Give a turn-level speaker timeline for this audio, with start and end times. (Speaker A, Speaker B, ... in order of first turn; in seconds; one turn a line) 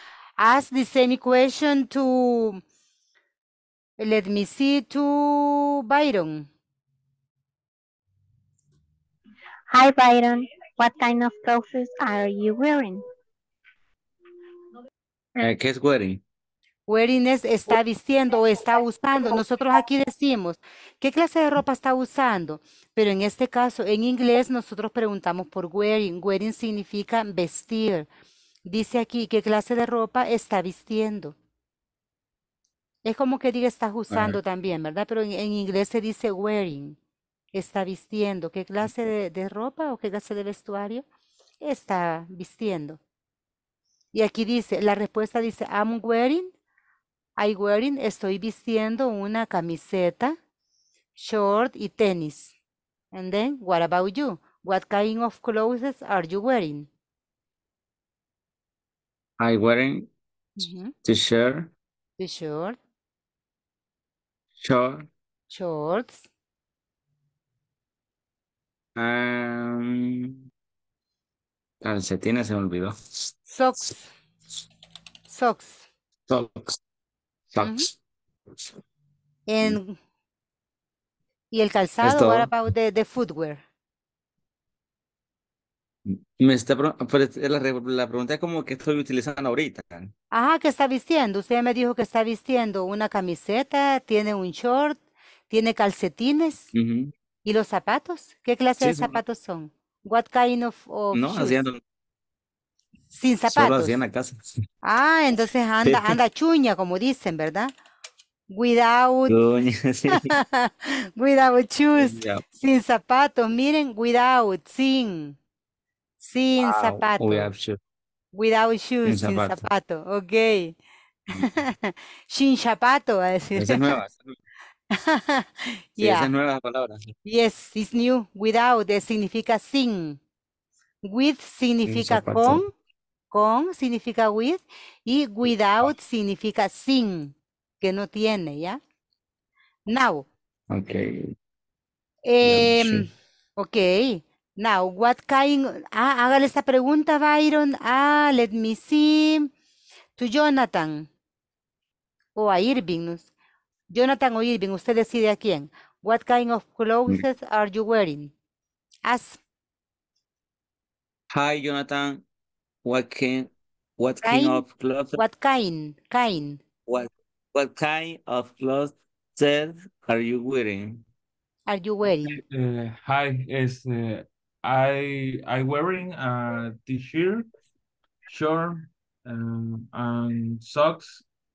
Speaker A: 0.4-2.6
Speaker A: 4.0-6.5
Speaker B: 9.7-13.0
Speaker C: 15.4-16.2
Speaker A: 16.9-28.1
Speaker A: 28.7-31.4
Speaker A: 33.0-37.0
Speaker C: 34.1-34.4
Speaker A: 37.5-41.0
Speaker A: 41.6-43.0
Speaker A: 44.1-46.5
Speaker A: 47.4-50.4
Speaker A: 51.2-52.5
Speaker A: 53.1-56.9
Speaker C: 59.4-60.1
Speaker A: 60.6-60.9
Speaker C: 61.0-61.7
Speaker A: 62.2-62.8
Speaker C: 64.6-65.1
Speaker A: 65.5-66.2
Speaker C: 69.0-70.4
Speaker C: 71.8-73.3
Speaker A: 73.5-74.1
Speaker A: 75.3-75.9
Speaker C: 76.3-76.8
Speaker C: 77.5-78.0
Speaker A: 77.6-77.9
Speaker A: 79.5-80.0
Speaker A: 81.5-83.6
Speaker C: 82.0-82.5
Speaker C: 86.1-90.1
Speaker A: 90.3-96.7
Speaker C: 96.7-97.1
Speaker A: 97.5-101.6
Speaker C: 98.8-99.2
Speaker C: 101.1-101.8
Speaker A: 103.1-104.0
Speaker C: 103.5-104.6
Speaker A: 104.8-107.7
Speaker C: 105.8-106.2
Speaker A: 108.5-109.4
Speaker C: 109.3-110.3
Speaker A: 110.1-115.4
Speaker C: 112.0-112.4
Speaker A: 116.2-117.5
Speaker C: 116.6-117.8
Speaker A: 118.3-120.8
Speaker C: 119.0-119.6
Speaker A: 121.4-124.0
Speaker C: 123.6-124.4
Speaker A: 124.9-126.3
Speaker C: 126.0-127.1
Speaker A: 127.2-130.2
Speaker A: 131.0-132.7
Speaker C: 131.9-132.7
Speaker A: 133.3-138.8
Speaker A: 139.9-140.3
Speaker C: 140.7-141.3
Speaker A: 142.2-149.5
Speaker C: 142.4-143.1
Speaker A: 150.2-151.1
Speaker A: 152.4-153.3
Speaker A: 153.9-158.3
Speaker A: 159.1-159.4
Speaker C: 161.3-162.2
Speaker C: 162.8-165.2
Speaker A: 164.2-164.7
Speaker A: 165.2-166.6
Speaker C: 166.9-171.0
Speaker A: 171.7-172.4
Speaker D: 172.2-177.5
Speaker D: 178.3-181.2